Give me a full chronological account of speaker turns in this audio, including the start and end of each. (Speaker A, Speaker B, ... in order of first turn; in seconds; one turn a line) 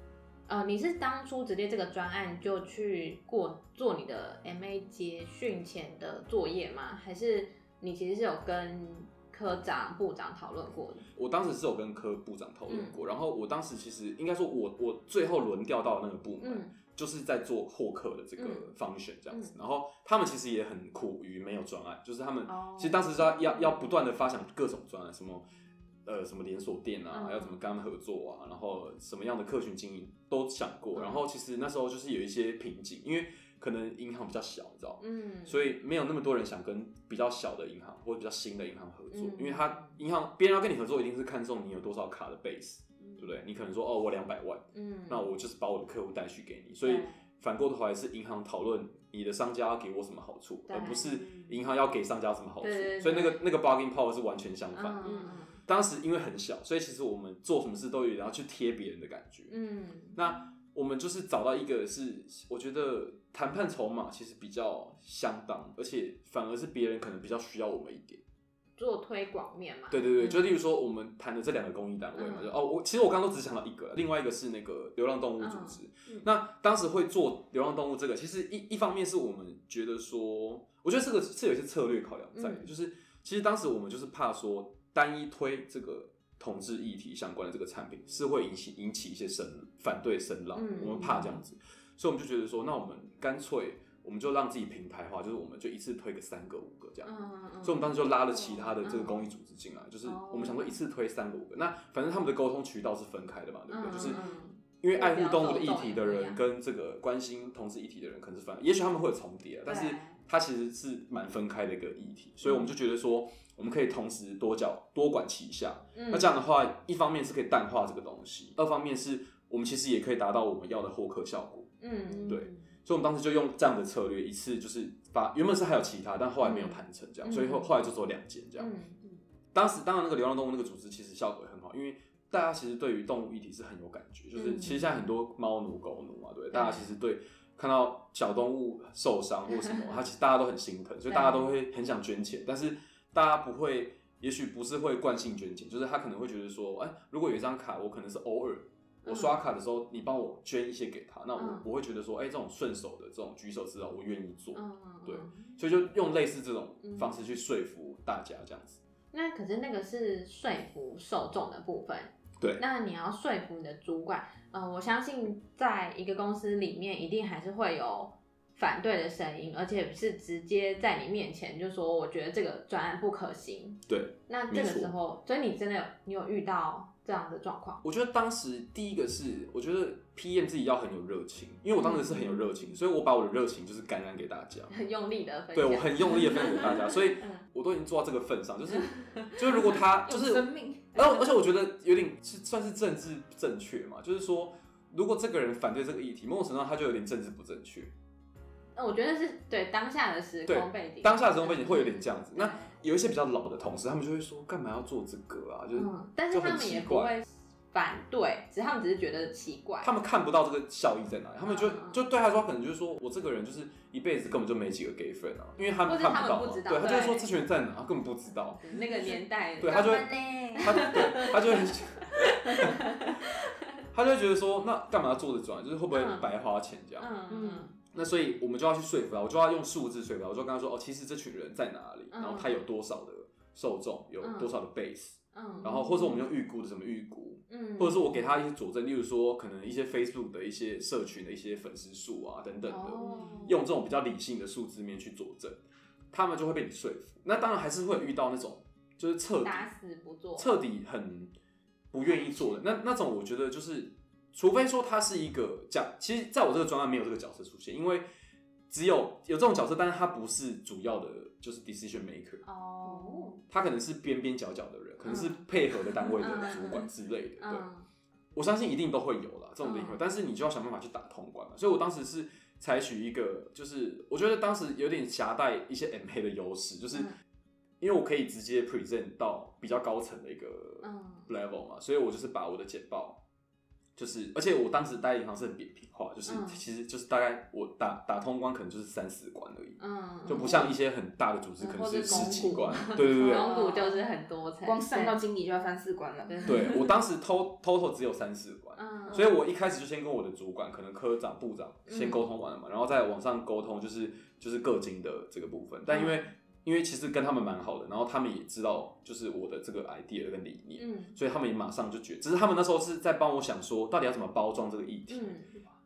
Speaker A: 0.5-11.1
Speaker B: 11.1-25.4
Speaker A: 12.7-13.0
Speaker A: 16.4-16.7
Speaker A: 18.4-18.7
Speaker A: 22.4-23.7
Speaker B: 26.1-59.5
Speaker A: 27.1-27.6
Speaker A: 30.9-31.2
Speaker A: 35.0-35.7
Speaker A: 39.1-40.0
Speaker A: 43.0-43.3
Speaker A: 44.7-45.3
Speaker A: 46.8-47.2
Speaker A: 50.7-51.5
Speaker A: 52.6-53.4
Speaker A: 54.7-55.6
Speaker A: 59.5-60.2
Speaker B: 60.1-68.2
Speaker A: 68.8-70.5
Speaker B: 69.9-104.2
Speaker A: 72.2-72.5
Speaker A: 75.4-75.8
Speaker A: 82.3-82.7
Speaker A: 90.5-91.3
Speaker A: 97.0-99.2
Speaker A: 100.0-100.8
Speaker A: 103.7-106.4
Speaker B: 104.8-128.7
Speaker A: 109.6-110.2
Speaker A: 112.4-112.7
Speaker A: 115.9-116.4
Speaker A: 121.8-122.5
Speaker A: 126.4-127.7
Speaker A: 128.6-129.0
Speaker B: 129.5-158.8
Speaker A: 134.3-134.9
Speaker A: 136.5-136.9
Speaker A: 141.1-141.5
Speaker A: 149.0-149.3
Speaker A: 151.3-151.7
Speaker A: 154.5-155.5
Speaker A: 156.8-157.1
Speaker A: 159.1-177.8
Speaker B: 173.9-174.9
Speaker B: 177.8-184.7
Speaker A: 181.8-182.5
Speaker A: 184.7-187.4
Speaker B: 185.5-197.9
Speaker A: 188.9-189.4
Speaker C: 189.4-191.1
Speaker A: 198.8-202.8
Speaker B: 200.4-207.1
Speaker A: 205.7-209.9
Speaker B: 209.8-218.6
Speaker A: 211.4-212.0
Speaker A: 215.8-217.3
Speaker A: 218.6-223.8
Speaker C: 218.9-221.4
Speaker B: 219.6-222.9
Speaker B: 223.9-227.1
Speaker A: 225.9-226.3
Speaker A: 227.0-227.7
Speaker C: 227.3-227.7
Speaker B: 227.9-245.6
Speaker A: 232.1-232.5
Speaker A: 234.2-234.5
Speaker A: 235.3-236.2
Speaker A: 237.5-238.3
Speaker A: 242.7-243.6
Speaker C: 243.0-243.4
Speaker B: 246.1-249.7
Speaker A: 249.4-250.5
Speaker B: 250.3-251.3
Speaker B: 251.9-258.1
Speaker B: 258.7-262.4
Speaker A: 262.4-263.4
Speaker C: 262.8-263.4
Speaker B: 263.5-267.7
Speaker A: 265.0-265.4
Speaker A: 266.0-266.9
Speaker A: 267.4-267.9
Speaker B: 268.3-277.1
Speaker A: 269.6-270.0
Speaker B: 277.8-283.2
Speaker A: 280.8-281.3
Speaker B: 283.9-293.5
Speaker A: 286.3-286.6
Speaker A: 289.8-290.7
Speaker A: 291.6-295.2
Speaker C: 291.8-294.0
Speaker C: 294.6-296.7
Speaker A: 296.3-296.8
Speaker B: 296.4-315.4
Speaker A: 298.8-299.3
Speaker A: 301.9-302.2
Speaker A: 305.9-306.3
Speaker A: 310.8-311.2
Speaker A: 315.1-315.6